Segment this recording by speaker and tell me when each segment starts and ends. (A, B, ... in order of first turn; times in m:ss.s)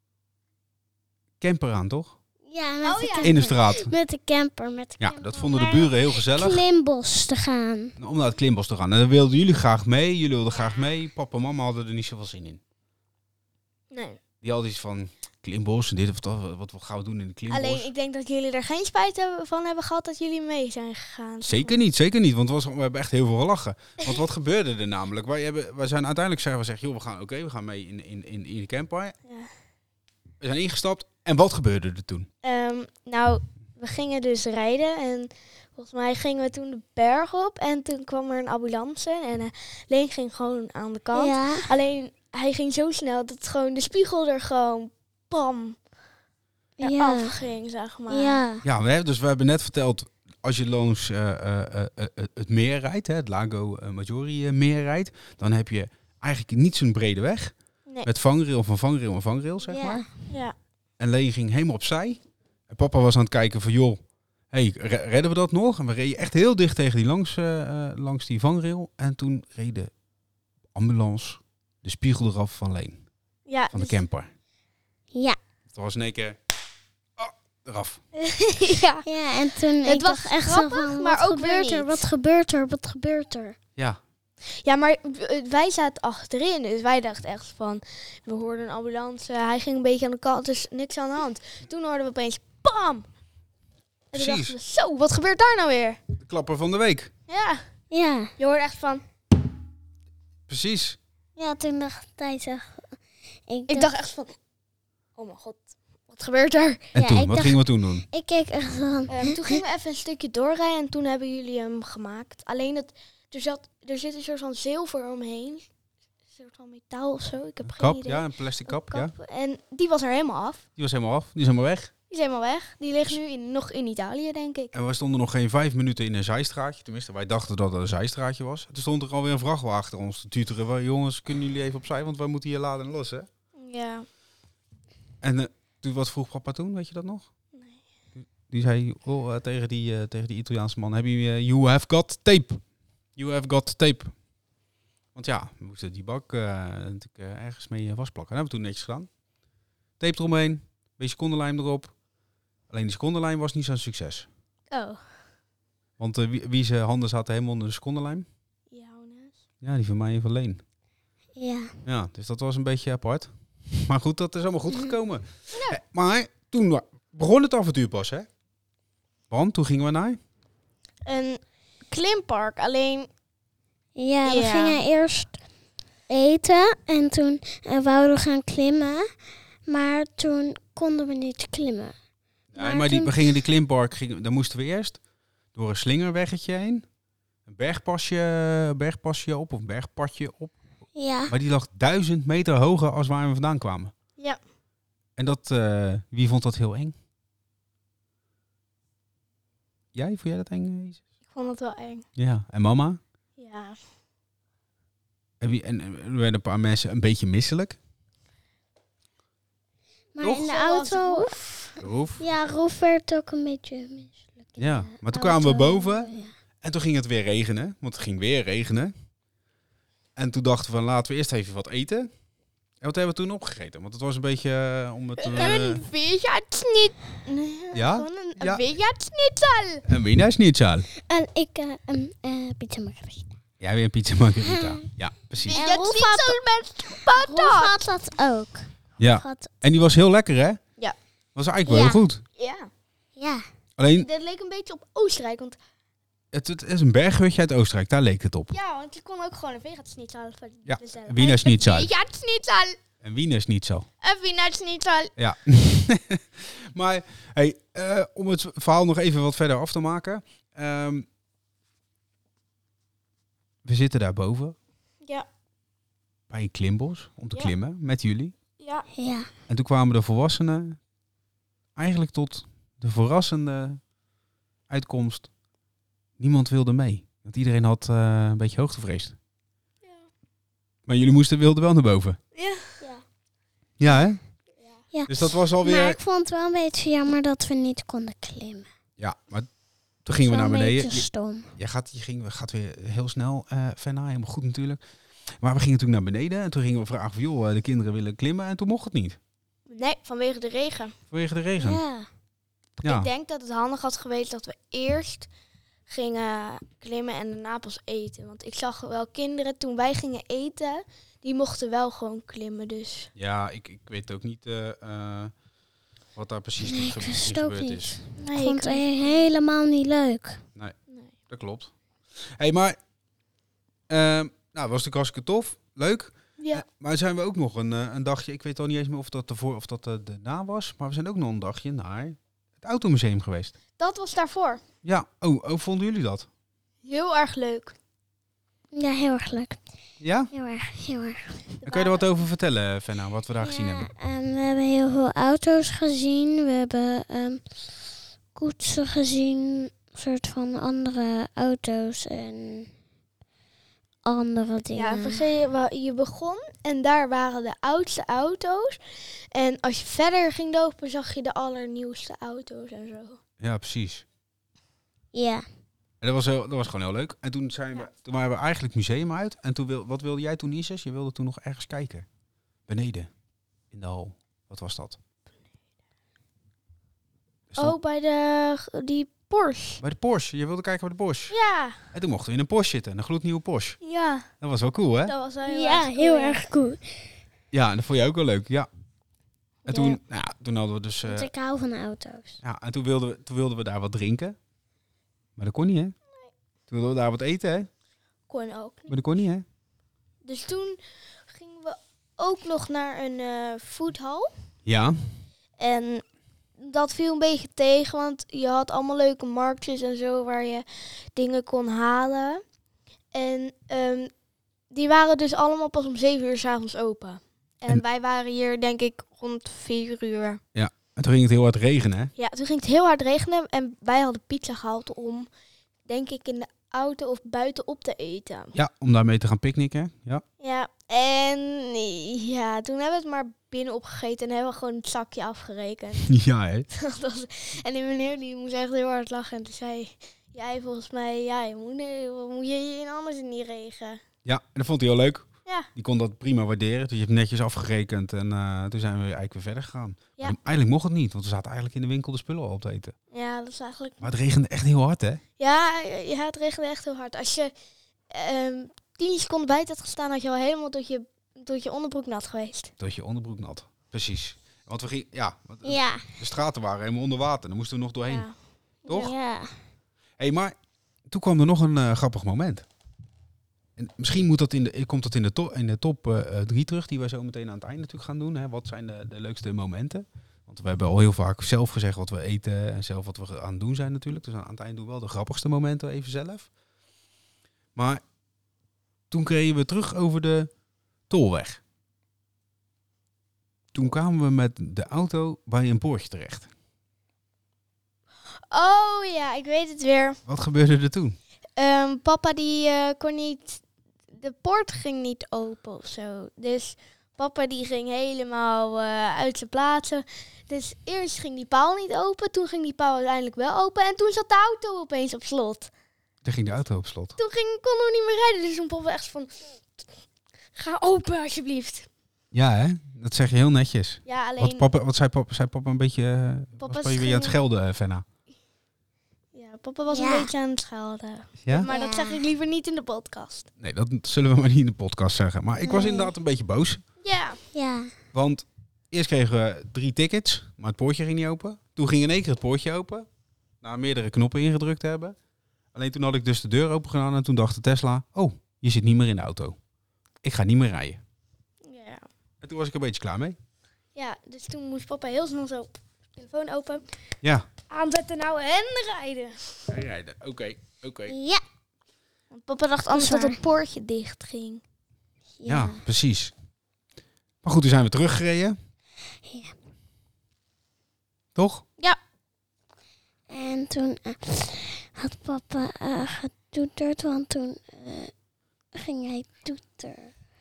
0:01.4-0:02.1 A
0:02.5-0:07.9 B
0:02.8-0:03.4 C
0:03.2-0:03.9 A
0:05.0-0:06.6 A
0:05.6-0:05.8 C
0:08.0-0:12.6 A
0:13.9-0:14.2 C
0:14.4-0:17.9 A
0:17.5-0:21.8 C
0:21.4-0:29.1 A
0:30.4-0:32.3 A
0:32.4-0:45.8 C
0:41.1-0:41.7 B
0:46.8-0:47.4 B
0:46.8-0:48.4 C
0:48.1-0:48.6 B
0:48.6-0:57.5 A
0:58.0-1:00.1 A
0:59.7-1:00.1 B
1:00.3-1:00.5 C
1:01.0-1:09.9 A
1:10.7-1:13.0 A
1:13.5-1:14.0 C
1:13.7-1:14.3 A
1:15.7-1:16.4 A
1:17.2-1:18.0 A
1:18.2-1:19.0 C
1:19.0-1:23.6 B
1:19.8-1:21.9 C
1:24.6-1:33.0 C
1:34.1-1:36.0 C
1:34.1-1:34.6 A
1:36.2-1:37.1 A
1:37.3-1:37.6 C
1:37.9-1:38.3 B
1:38.4-1:39.0 C
1:40.5-1:41.0 A
1:41.4-1:43.0 B
1:43.5-1:43.9 B
1:43.7-1:44.4 C
1:45.2-1:46.9 C
1:46.9-1:48.0 A
1:47.0-1:49.6 B
1:49.1-1:55.7 C
1:56.3-2:00.6 C
1:57.6-1:59.1 A
2:00.8-2:01.9 A
2:02.1-2:04.7 C
2:04.7-2:13.3 A
2:13.6-2:14.1 C
2:15.2-2:17.3 A
2:17.5-2:17.8 C
2:18.2-2:22.6 A
2:23.2-2:24.1 A
2:25.1-2:29.1 A
2:30.0-2:31.9 A
2:32.7-2:34.3 A
2:34.7-2:35.1 C
2:36.0-2:38.2 A
2:38.7-2:39.4 C
2:39.6-2:40.6 A
2:41.4-2:41.7 B
2:41.8-2:48.3 A
2:49.3-2:50.2 A
2:51.0-2:53.1 C
2:54.0-2:55.4 B
2:54.2-2:54.8 C
2:56.1-2:59.1 B
2:59.7-3:01.9 B
3:02.5-3:05.0 A
3:02.6-3:03.1 B
3:05.5-3:06.8 A
3:07.4-3:10.6 A
3:10.9-3:11.3 B
3:11.3-3:13.9 A
3:15.2-3:16.9 A
3:19.9-3:21.0 A
3:21.3-3:22.0 C
3:22.2-3:23.0 A
3:23.4-3:23.8 C
3:25.4-3:27.8 A
3:30.1-3:31.4 B
3:30.2-3:31.8 C
3:31.8-3:32.2 A
3:32.2-3:36.3 B
3:34.6-3:36.1 A
3:36.6-3:38.9 A
3:40.2-3:42.1 A
3:42.8-3:45.8 A
3:45.2-3:49.8 C
3:47.7-3:48.6 A
3:49.9-3:50.9 A
3:51.0-3:53.3 B
3:53.6-3:55.6 A
3:54.4-3:54.8 B
3:55.5-3:57.8 C
3:55.5-3:56.4 B
3:57.1-3:59.5 B
3:59.0-4:00.6 A
4:01.4-4:02.2 A
4:01.7-4:02.0 B
4:02.4-4:02.7 C
4:03.2-4:03.4 B
4:03.8-4:04.1 A
4:04.0-4:05.6 C
4:06.3-4:08.6 A
4:08.5-4:12.8 C
4:10.6-4:11.9 A
4:13.0-4:13.9 A
4:14.0-4:15.1 C
4:15.2-4:21.0 A
4:23.6-4:24.6 A
4:26.3-4:28.3 A
4:28.6-4:28.9 C
4:28.9-4:29.3 B
4:29.5-4:30.8 A
4:31.8-4:33.8 A
4:34.7-4:35.3 A
4:36.2-4:39.2 A
4:39.8-4:40.1 C
4:40.9-4:42.2 A
4:42.3-4:42.9 C
4:43.8-4:44.2 A
4:44.9-4:48.7 B
4:45.1-4:46.0 A
4:49.0-4:49.5 A
4:50.0-4:54.8 A
4:50.2-4:51.5 B
4:55.4-4:59.2 A
4:59.7-5:00.9 C
5:01.1-5:01.8 A
5:01.6-5:02.1 B
5:02.8-5:05.3 C
5:02.8-5:03.1 A
5:05.9-5:13.1 C
5:13.2-5:15.3 A
5:16.1-5:18.0 A
5:16.6-5:20.4 B
5:18.2-5:19.2 C
5:21.3-5:21.7 A
5:22.4-5:22.8 A
5:23.9-5:33.5 A
5:26.4-5:26.6 C
5:33.8-5:34.6 C
5:34.8-5:36.3 A
5:36.8-5:37.7 C
5:38.7-5:39.6 B
5:40.0-5:40.3 A
5:40.3-5:41.4 B
5:41.6-5:42.0 C
5:41.6-5:43.9 A
5:43.4-5:47.6 B
5:48.3-5:52.7 B
5:54.0-5:55.2 B
5:54.8-5:58.8 C
5:59.3-6:03.2 C
6:03.4-6:04.0 A
6:05.1-6:05.4 B
6:06.0-6:12.1 A
6:12.7-6:13.1 A
6:13.7-6:15.0 A
6:17.6-6:19.8 C
6:19.8-6:21.3 A
6:21.3-6:21.8 C
6:21.9-6:23.8 A
6:23.8-6:24.3 C
6:24.4-6:25.1 A
6:25.0-6:26.4 C
6:25.4-6:27.1 B
6:27.5-6:28.7 A
6:29.6-6:31.3 A
6:29.7-6:30.0 C
6:31.0-6:32.4 B
6:32.4-6:34.4 A
6:35.4-6:36.0 A
6:36.7-6:37.7 A
6:38.3-6:38.9 C
6:38.9-6:39.4 A
6:40.2-6:44.3 C
6:44.6-6:45.0 A
6:45.6-6:46.0 C
6:46.6-6:52.4 C
6:53.1-6:54.1 C
6:54.7-7:00.4 C
7:00.5-7:02.1 A
7:02.2-7:05.3 C
7:05.8-7:08.5 C
7:08.5-7:10.2 A
7:10.4-7:16.1 C
7:16.1-7:16.7 A
7:16.7-7:24.0 C
7:24.2-7:32.9 A
7:33.1-7:34.0 C
7:34.0-7:35.2 A
7:35.4-7:37.5 C
7:38.1-7:42.7 C
7:42.8-7:48.3 A
7:45.6-7:46.0 B
7:48.1-7:49.1 C
7:48.8-7:49.1 A
7:48.9-7:49.5 B
7:50.2-7:50.5 A
7:51.1-7:52.6 A
7:53.8-8:06.5 A
8:07.8-8:08.0 A
8:09.1-8:10.5 A
8:11.1-8:11.6 A
8:13.7-8:16.5 A
8:18.5-8:20.2 C
8:20.2-8:21.2 A
8:21.6-8:35.7 C
8:36.2-8:37.2 A
8:37.2-8:39.6 C
8:40.5-8:41.9 C
8:42.3-8:48.0 A
8:44.0-8:44.6 C
8:46.6-8:47.3 C
8:49.3-8:53.5 C
8:49.9-8:50.3 B
8:51.6-8:52.2 B
8:53.6-8:56.8 A
8:55.6-8:56.1 B
8:57.0-8:57.4 C
8:57.5-8:57.9 B
8:58.1-9:03.1 A
9:03.6-9:05.2 A
9:05.7-9:09.6 A
9:10.2-9:11.0 A
9:11.6-9:12.0 C
9:12.4-9:13.4 A
9:13.9-9:16.9 C
9:17.2-9:17.5 A
9:17.7-9:19.6 C
9:19.7-9:21.1 A
9:21.1-9:21.4 B
9:22.3-9:24.6 C
9:22.9-9:23.4 B
9:25.4-9:25.8 B
9:25.5-9:26.3 A
9:27.4-9:28.6 A
9:29.2-9:29.5 B
9:31.3-9:31.6 A
9:33.3-9:38.1 B
9:38.7-9:40.1 B